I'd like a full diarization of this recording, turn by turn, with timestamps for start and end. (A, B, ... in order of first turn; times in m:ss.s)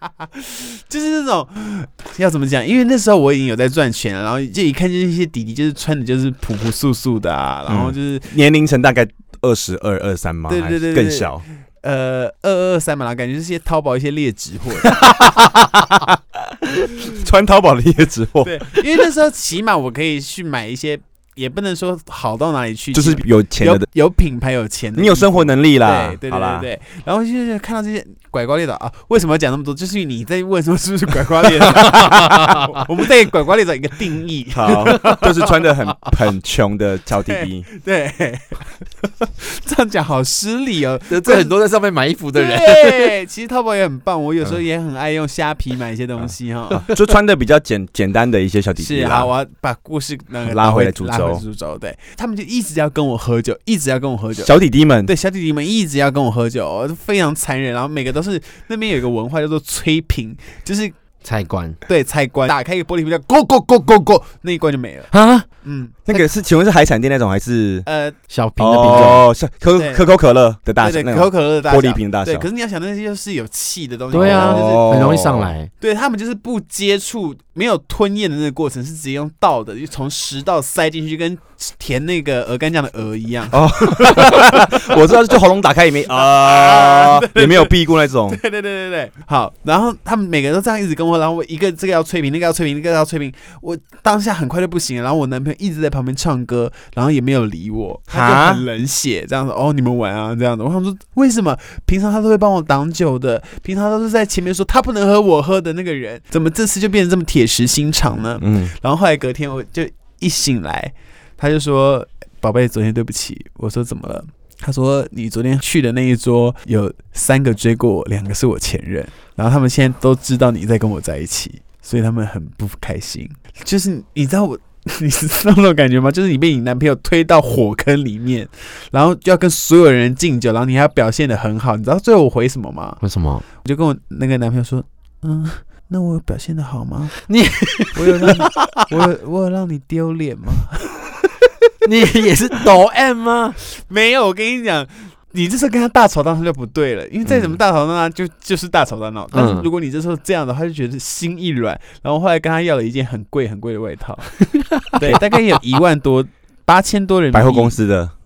0:00.3-0:08.3 A
0:07.7-0:11.4 B
0:10.5-0:15.0 A
0:15.0-0:18.8 B
0:18.4-0:35.3 A
0:22.9-0:23.9 B
0:25.0-0:26.7 B
0:31.6-0:32.8 C
0:34.5-0:37.7 B
0:37.3-0:41.5 A
0:41.1-0:43.1 C
0:42.3-0:46.9 A
0:46.8-0:49.3 B
0:48.8-0:54.5 A
0:50.4-0:51.4 B
0:54.4-0:55.1 B
0:55.1-1:01.0 A
1:01.2-1:01.8 C
1:01.9-1:06.0 A
1:05.1-1:05.5 C
1:06.1-1:07.9 B
1:07.9-1:08.2 A
1:08.3-1:09.2 C
1:08.6-1:12.5 B
1:09.8-1:10.0 A
1:10.8-1:15.0 A
1:14.1-1:15.5 B
1:14.1-1:15.7 C
1:15.8-1:24.8 A
1:23.5-1:28.4 B
1:26.2-2:13.0 A
1:38.1-1:38.6 B
1:48.4-1:48.7 B
2:13.0-2:13.4 C
2:13.6-2:17.2 A
2:17.2-2:19.1 C
2:17.9-2:21.2 A
2:21.8-2:23.6 C
2:23.7-2:37.8 A
2:27.3-2:27.6 B
2:29.3-2:29.7 C
2:34.6-2:35.2 C
2:37.3-2:38.1 B